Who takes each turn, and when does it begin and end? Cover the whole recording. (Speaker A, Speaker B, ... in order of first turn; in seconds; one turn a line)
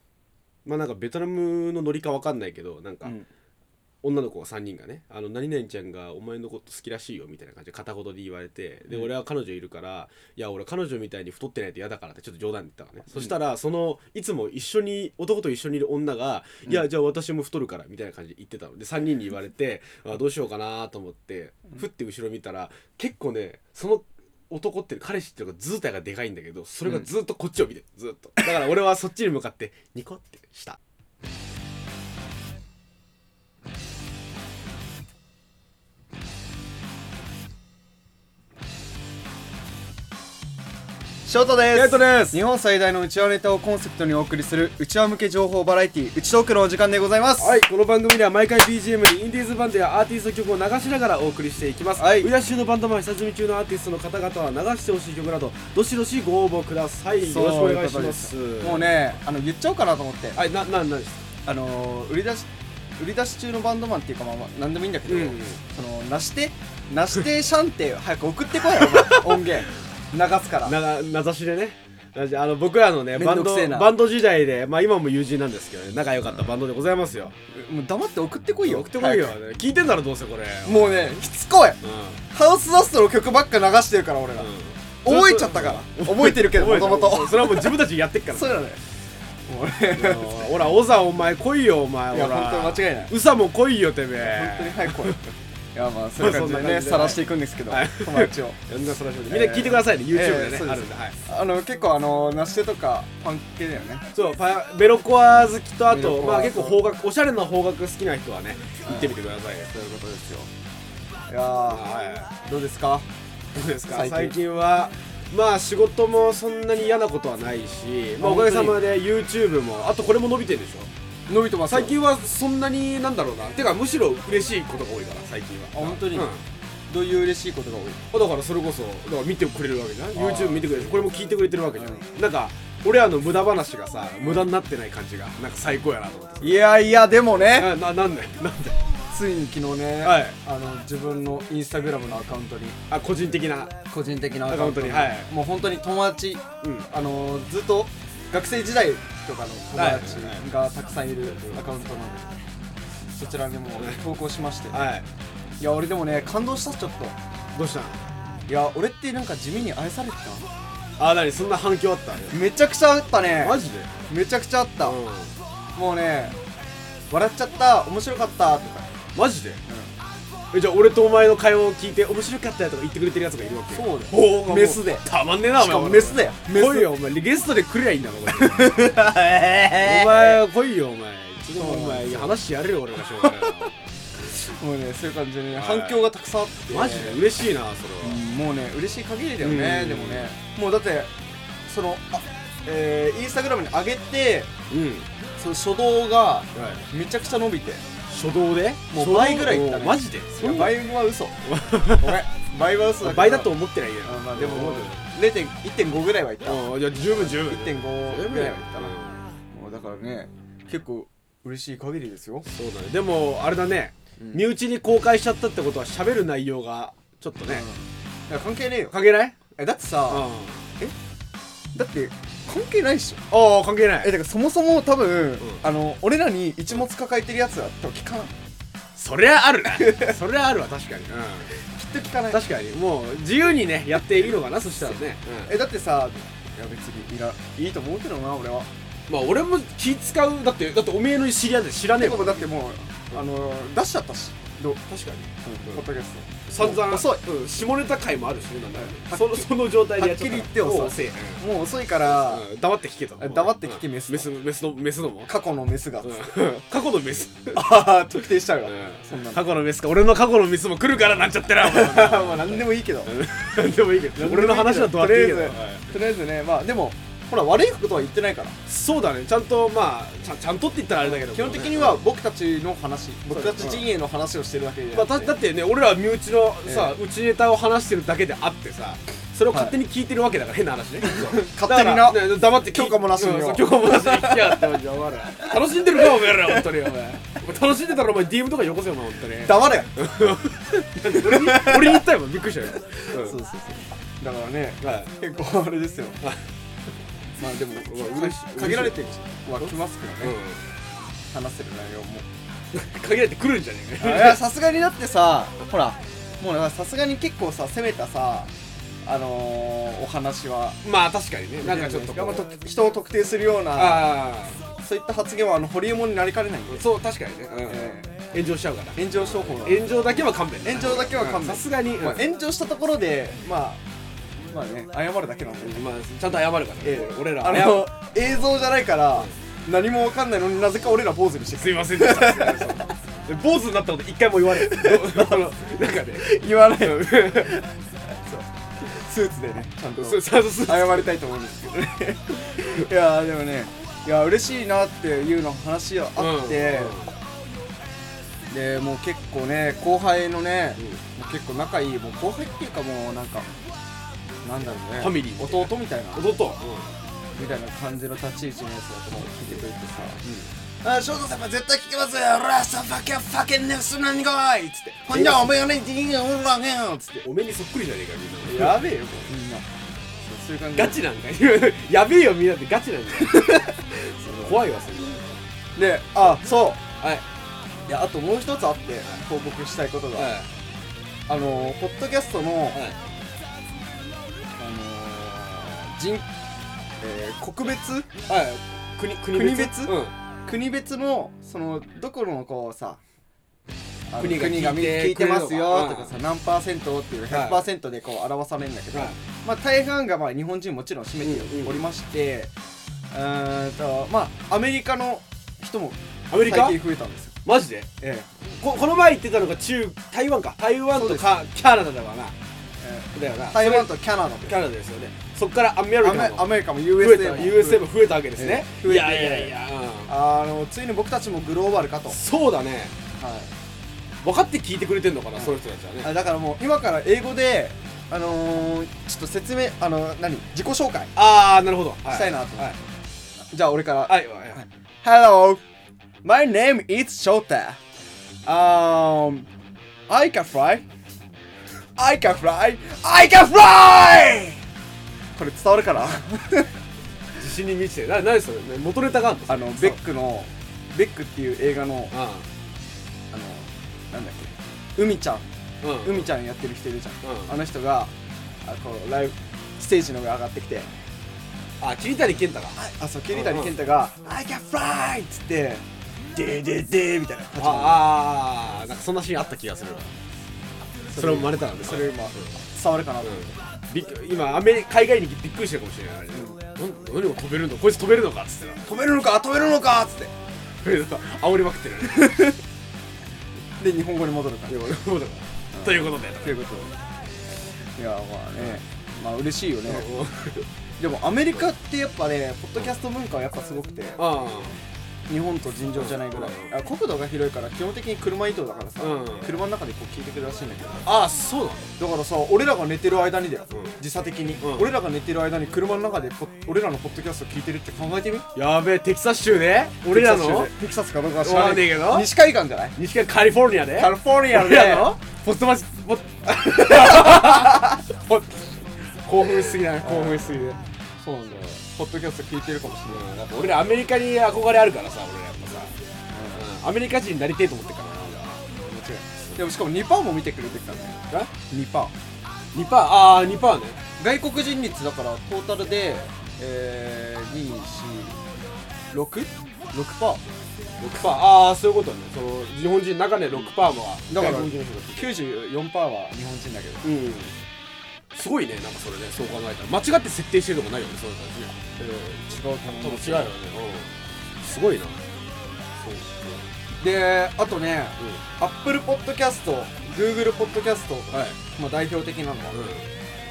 Speaker A: 0.6-3.2
Speaker A: 4.0-30.8
Speaker B: 41.2-47.6
Speaker A: 41.7-42.4
Speaker A: 47.4-59.0
Speaker B: 52.0-52.3
Speaker B: 57.1-60.4
Speaker A: 60.3-61.2
Speaker B: 61.4-70.8
Speaker A: 65.0-65.6
Speaker A: 68.7-69.6
Speaker A: 70.6-77.3
Speaker B: 73.1-73.9
Speaker B: 77.5-79.4
Speaker A: 78.6-81.1
Speaker B: 80.6-81.8
Speaker A: 81.8-82.2
Speaker B: 82.3-84.5
Speaker A: 84.4-88.6
Speaker B: 85.0-88.8
Speaker B: 89.5-90.7
Speaker A: 89.9-95.2
Speaker B: 92.1-93.1
Speaker B: 94.2-95.2
Speaker B: 95.7-98.6
Speaker A: 96.2-101.2
Speaker B: 99.3-104.0
Speaker A: 104.1-109.7
Speaker B: 105.9-106.8
Speaker B: 108.8-109.1
Speaker B: 109.7-110.5
Speaker B: 111.3-111.8
Speaker A: 111.7-112.3
Speaker B: 112.4-113.1
Speaker A: 113.5-120.9
Speaker B: 113.9-114.4
Speaker B: 118.2-118.8
Speaker B: 121.3-122.0
Speaker A: 121.7-126.4
Speaker B: 125.7-126.3
Speaker B: 126.9-128.0
Speaker A: 128.1-136.7
Speaker B: 130.1-131.1
Speaker B: 131.8-132.1
Speaker B: 136.4-137.7
Speaker A: 137.4-138.8
Speaker B: 139.1-142.8
Speaker A: 140.0-140.4
Speaker A: 142.9-143.7
Speaker B: 143.9-152.4
Speaker A: 144.5-145.3
Speaker A: 146.6-146.9
Speaker A: 149.7-150.4
Speaker B: 153.1-154.9
Speaker A: 154.7-155.1
Speaker B: 155.6-157.2
Speaker A: 157.5-158.0
Speaker B: 158.5-160.5
Speaker A: 161.0-162.4
Speaker B: 162.3-165.0
Speaker A: 163.3-163.9
Speaker A: 164.8-165.3
Speaker B: 165.7-166.4
Speaker B: 167.1-168.9
Speaker A: 169.1-169.6
Speaker B: 169.7-169.9
Speaker A: 170.5-179.2
Speaker B: 173.7-176.9
Speaker B: 178.3-180.4
Speaker A: 179.7-183.8
Speaker B: 181.6-182.3
Speaker B: 183.2-183.7
Speaker B: 184.2-187.2
Speaker A: 185.5-186.1
Speaker A: 186.7-188.2
Speaker B: 188.0-191.1
Speaker A: 189.4-190.3
Speaker B: 191.6-194.5
Speaker A: 194.7-195.1
Speaker B: 195.4-197.8
Speaker A: 196.5-196.8
Speaker A: 198.1-200.8
Speaker B: 198.9-208.9
Speaker A: 201.4-202.2
Speaker A: 203.0-205.0
Speaker A: 206.4-209.2
Speaker B: 209.5-212.4
Speaker A: 212.4-217.7
Speaker B: 217.5-218.9
Speaker A: 218.9-219.4
Speaker B: 219.6-220.3
Speaker A: 220.1-220.7
Speaker B: 221.7-223.3
Speaker A: 223.3-224.1
Speaker B: 224.0-228.3
Speaker A: 228.9-231.6
Speaker B: 229.8-230.1
Speaker B: 231.5-232.4
Speaker A: 232.3-235.5
Speaker B: 235.4-238.7
Speaker A: 239.1-242.5
Speaker B: 241.9-244.8
Speaker A: 244.8-245.8
Speaker B: 245.4-247.2
Speaker A: 246.5-251.4
Speaker B: 248.7-252.4
Speaker A: 252.0-255.3
Speaker B: 253.2-254.3
Speaker B: 255.3-256.4
Speaker A: 256.0-257.9
Speaker B: 257.5-259.4
Speaker A: 258.6-265.9
Speaker B: 261.6-263.1
Speaker B: 264.1-268.6
Speaker A: 268.6-272.0
Speaker B: 271.0-275.3
Speaker A: 273.3-273.9
Speaker A: 274.9-293.4
Speaker B: 276.6-277.0
Speaker B: 279.5-279.8
Speaker B: 281.0-284.8
Speaker B: 285.7-286.7
Speaker B: 289.4-289.9
Speaker B: 291.1-292.0
Speaker B: 293.1-296.2
Speaker A: 294.8-295.1
Speaker B: 297.4-300.4
Speaker A: 297.8-299.1
Speaker A: 299.6-300.6
Speaker B: 301.3-302.2
Speaker A: 302.7-304.4
Speaker B: 304.0-308.5
Speaker B: 309.0-310.8
Speaker A: 310.8-312.5
Speaker B: 311.6-314.2
Speaker A: 313.7-314.6
Speaker B: 314.8-316.8
Speaker A: 316.7-322.3
Speaker B: 317.7-318.1
Speaker B: 318.9-323.8
Speaker B: 324.5-325.9
Speaker A: 325.6-327.9
Speaker B: 326.8-332.8
Speaker A: 331.5-337.6
Speaker B: 334.5-335.3
Speaker B: 336.1-347.0
Speaker A: 340.0-341.1
Speaker A: 346.2-347.1
Speaker B: 348.5-353.5
Speaker B: 354.4-356.3
Speaker A: 355.0-356.9
Speaker B: 357.3-360.2
Speaker A: 360.2-360.5
Speaker B: 360.8-367.2
Speaker A: 365.1-365.6
Speaker A: 367.2-368.9
Speaker B: 368.4-369.7
Speaker B: 370.2-371.0
Speaker A: 370.8-375.4
Speaker B: 373.2-373.7
Speaker B: 374.3-374.5
Speaker B: 375.8-376.8
Speaker B: 377.9-380.4
Speaker A: 380.1-380.5
Speaker B: 381.3-382.8
Speaker A: 382.7-383.0
Speaker B: 384.5-386.2
Speaker B: 387.0-388.1
Speaker A: 388.3-390.1
Speaker B: 389.3-393.0
Speaker B: 394.1-402.5
Speaker A: 394.2-396.1
Speaker A: 397.3-397.6
Speaker A: 398.9-399.2
Speaker A: 401.2-401.8
Speaker B: 403.1-407.4
Speaker A: 406.3-406.8
Speaker A: 407.4-407.9
Speaker B: 408.0-408.3
Speaker A: 408.4-412.3
Speaker B: 410.9-411.2
Speaker B: 412.8-414.6
Speaker A: 413.1-413.9
Speaker A: 414.4-420.1
Speaker B: 416.0-419.5
Speaker B: 420.1-422.2
Speaker A: 422.1-422.9
Speaker B: 423.2-423.5
Speaker A: 424.2-426.1
Speaker B: 425.4-431.1
Speaker A: 431.1-432.8
Speaker B: 432.1-432.8
Speaker B: 433.5-435.6
Speaker A: 434.1-434.6
Speaker B: 436.2-437.8
Speaker B: 438.4-439.5
Speaker B: 440.1-440.8
Speaker B: 442.0-444.6
Speaker B: 445.4-446.8
Speaker A: 447.4-450.0
Speaker B: 449.5-452.1
Speaker A: 452.1-452.5
Speaker B: 453.3-455.4
Speaker A: 455.8-456.3
Speaker B: 456.0-460.9
Speaker A: 457.2-457.5
Speaker A: 461.8-462.8
Speaker B: 462.8-468.1
Speaker A: 463.3-463.7
Speaker A: 467.6-470.1
Speaker B: 471.1-473.5
Speaker A: 471.1-472.5
Speaker A: 473.2-478.9
Speaker B: 478.8-480.3
Speaker A: 480.8-482.6
Speaker B: 483.8-485.0
Speaker A: 484.7-486.6
Speaker B: 485.7-487.0
Speaker B: 487.9-490.1
Speaker A: 489.9-490.6
Speaker B: 491.0-494.2
Speaker A: 494.2-494.8
Speaker B: 495.3-501.1
Speaker A: 495.9-496.7
Speaker A: 499.0-499.6
Speaker A: 501.0-501.9
Speaker B: 502.0-508.5
Speaker A: 503.7-504.0
Speaker A: 504.6-504.9
Speaker A: 508.5-510.7
Speaker B: 510.1-513.0
Speaker A: 511.4-512.3
Speaker A: 513.0-520.8
Speaker B: 513.9-515.1
Speaker B: 516.6-518.0
Speaker B: 520.0-523.2
Speaker A: 523.1-525.9
Speaker B: 526.3-526.6
Speaker A: 526.5-528.6
Speaker B: 528.8-532.1
Speaker A: 532.7-534.0
Speaker B: 534.2-538.4
Speaker B: 539.1-540.4
Speaker A: 541.0-545.4
Speaker B: 544.3-547.0
Speaker A: 547.0-547.5
Speaker A: 548.3-555.2
Speaker B: 552.0-553.5
Speaker A: 556.1-556.6
Speaker B: 557.0-562.8
Speaker A: 561.3-561.6
Speaker A: 562.7-563.1